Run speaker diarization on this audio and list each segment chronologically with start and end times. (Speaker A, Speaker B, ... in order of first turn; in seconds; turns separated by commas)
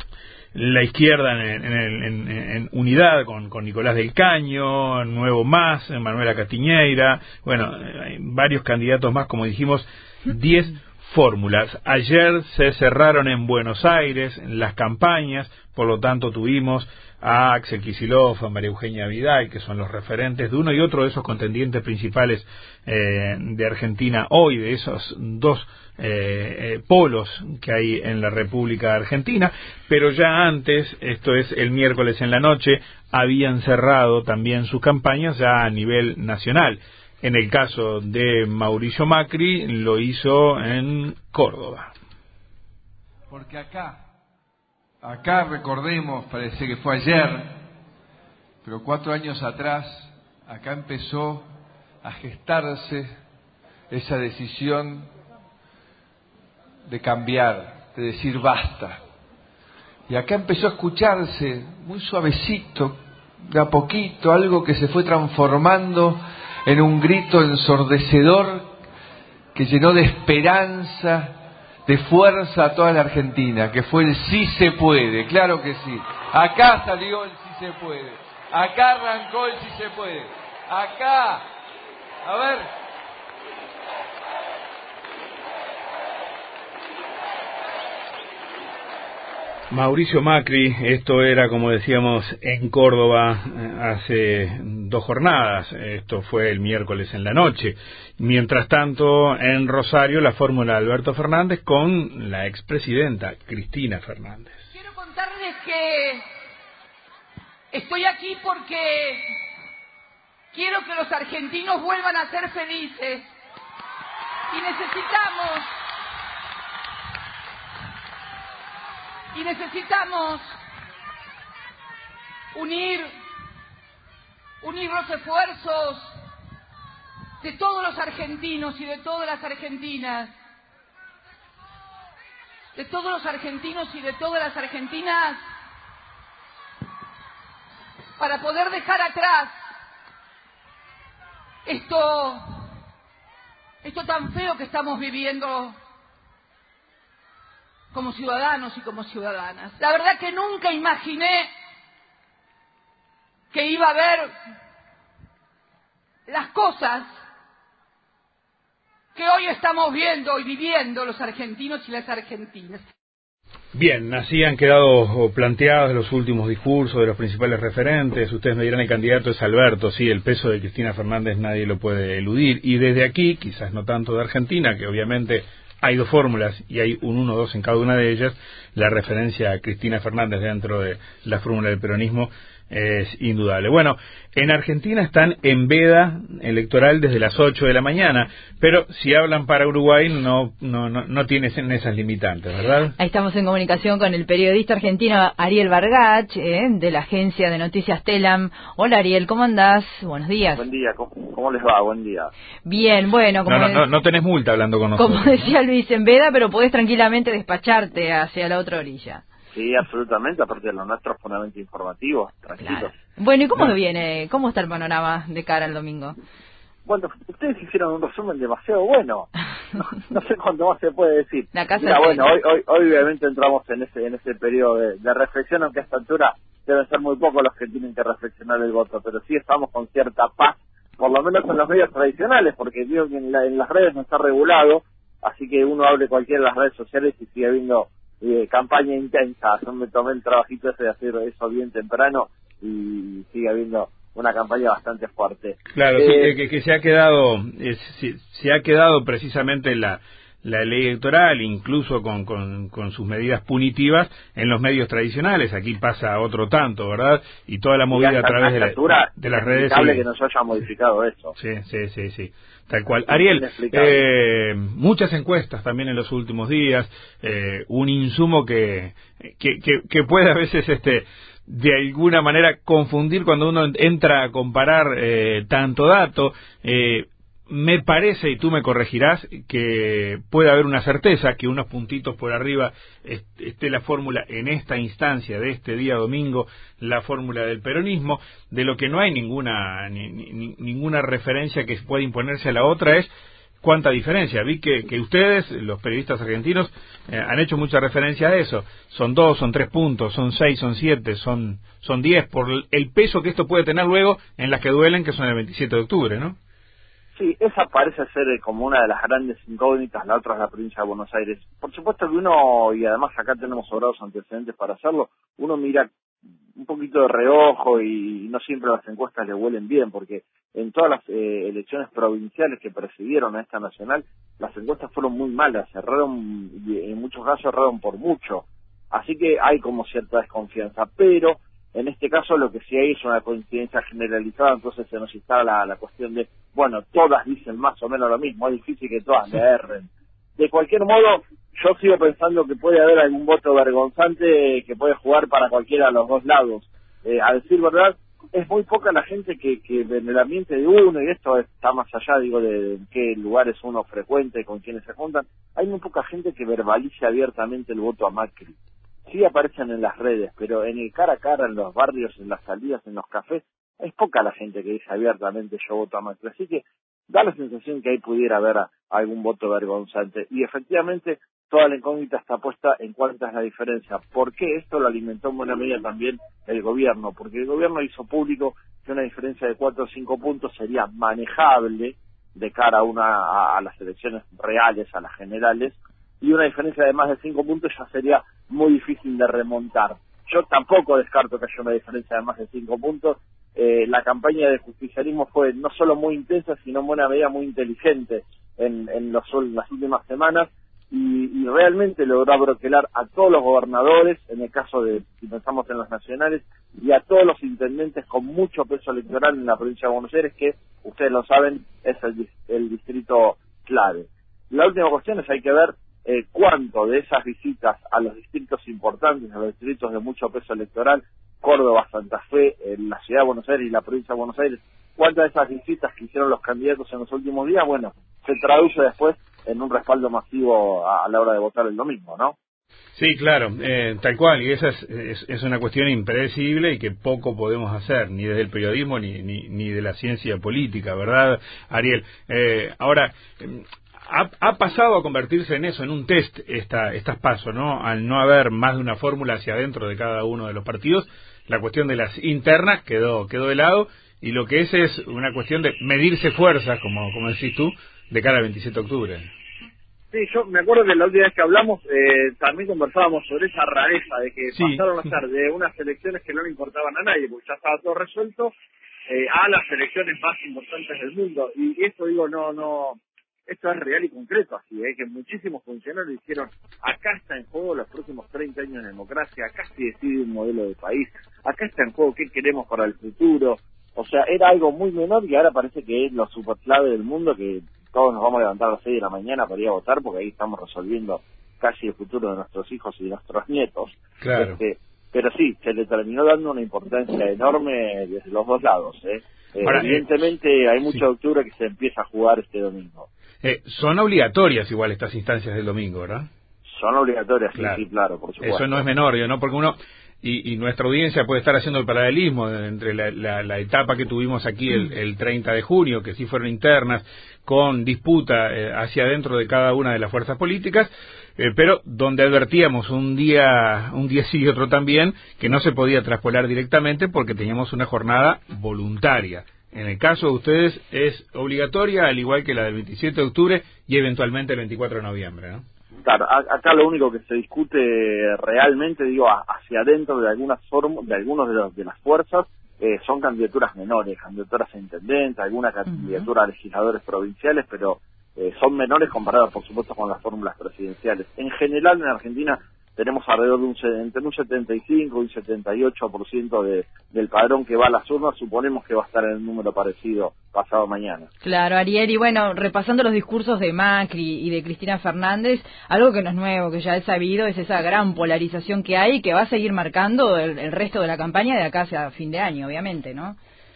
Speaker A: 0.5-41.9, Speaker B: 43.3-44.0, Speaker B: 45.0-47.6, Speaker B: 48.6-51.5, Speaker B: 52.0-53.1, Speaker B: 53.9-55.1, Speaker B: 56.9-59.0, Speaker B: 60.1-68.7, Speaker B: 69.5-81.5, Speaker B: 82.2-82.7, Speaker A: 89.7-104.7, Speaker C: 104.8-106.2, Speaker C: 107.7-109.2, Speaker C: 110.5-113.2, Speaker C: 114.5-115.7, Speaker C: 119.3-120.5, Speaker C: 122.5-123.1, Speaker C: 124.6-126.1, Speaker C: 127.4-130.3, Speaker C: 132.8-135.4, Speaker C: 138.2-139.5, Speaker C: 141.7-142.7, Speaker C: 143.8-145.7, Speaker C: 147.9-151.5, Speaker C: 153.5-154.3, Speaker C: 156.3-157.1, Speaker C: 159.2-162.8, Speaker A: 163.7-192.9, Speaker D: 193.0-200.6, Speaker E: 200.6-202.3, Speaker D: 202.7-203.8, Speaker A: 203.5-205.5, Speaker D: 205.0-209.2, Speaker E: 209.5-213.0, Speaker D: 212.6-216.1, Speaker E: 216.9-246.4, Speaker D: 221.5-222.2, Speaker A: 245.7-260.1, Speaker E: 257.9-261.4, Speaker A: 261.4-306.4, Speaker E: 263.1-264.1, Speaker E: 307.2-315.9, Speaker E: 316.6-358.6, Speaker E: 359.1-432.4, Speaker A: 432.9-459.3, Speaker E: 460.1-468.5, Speaker A: 464.5-464.9, Speaker E: 469.1-503.1, Speaker A: 494.2-494.6, Speaker A: 499.6-500.1, Speaker A: 503.4-506.3, Speaker E: 506.7-508.9, Speaker A: 507.6-507.8, Speaker A: 508.4-535.6, Speaker E: 536.0-561.3, Speaker D: 561.4-573.4